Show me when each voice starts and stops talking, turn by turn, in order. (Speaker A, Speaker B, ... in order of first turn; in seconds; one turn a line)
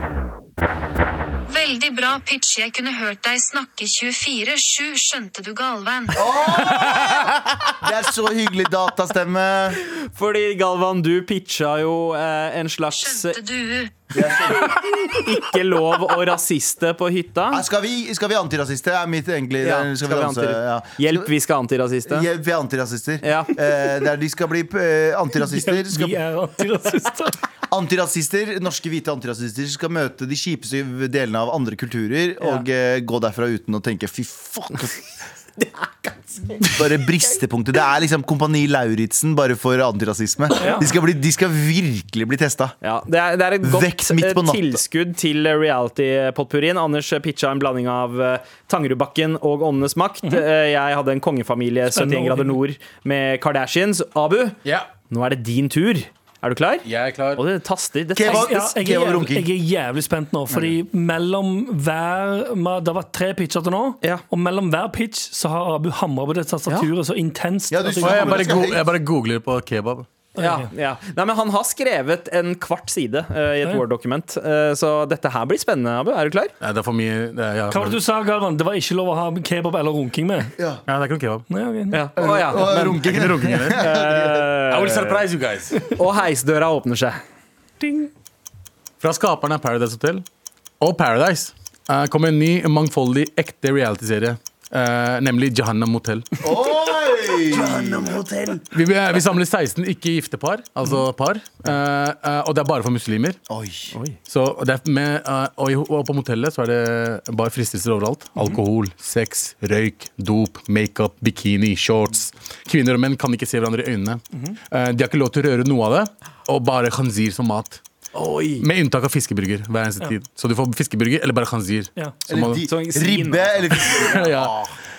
Speaker A: 1.5-6.3
Speaker B: 6.1-9.8
Speaker C: 9.8-13.4
Speaker A: 12.9-13.9
Speaker B: 14.1-14.8
Speaker C: 14.4-17.6
Speaker B: 17.5-21.3
Speaker C: 19.6-22.3
Speaker B: 22.1-26.2
Speaker C: 23.2-23.6
Speaker D: 25.4-27.4
Speaker B: 27.7-35.0
Speaker B: 36.5-42.8
Speaker D: 40.6-40.8
Speaker C: 42.8-54.6
Speaker B: 43.6-44.8
Speaker D: 51.9-52.6
Speaker E: 54.6-54.9
Speaker C: 55.1-58.5
Speaker E: 56.8-57.4
Speaker B: 58.1-59.5
Speaker D: 58.2-68.6
Speaker B: 67.7-68.8
Speaker E: 68.0-70.1
Speaker D: 70.4-70.7
Speaker C: 70.4-76.5
Speaker E: 76.6-78.0
Speaker D: 77.7-80.5
Speaker B: 80.6-80.8
Speaker E: 80.9-81.4
Speaker D: 81.5-82.0
Speaker C: 81.9-82.9
Speaker B: 82.2-84.5
Speaker E: 82.5-83.9
Speaker C: 83.8-85.2
Speaker E: 84.7-85.9
Speaker C: 85.9-87.2
Speaker E: 89.0-90.2
Speaker E: 90.8-96.3
Speaker B: 96.4-98.1
Speaker E: 98.7-103.4
Speaker B: 103.5-103.9
Speaker E: 104.3-117.8
Speaker C: 118.1-118.6
Speaker E: 118.6-122.7
Speaker B: 122.3-124.7
Speaker C: 122.7-124.1
Speaker E: 124.0-124.6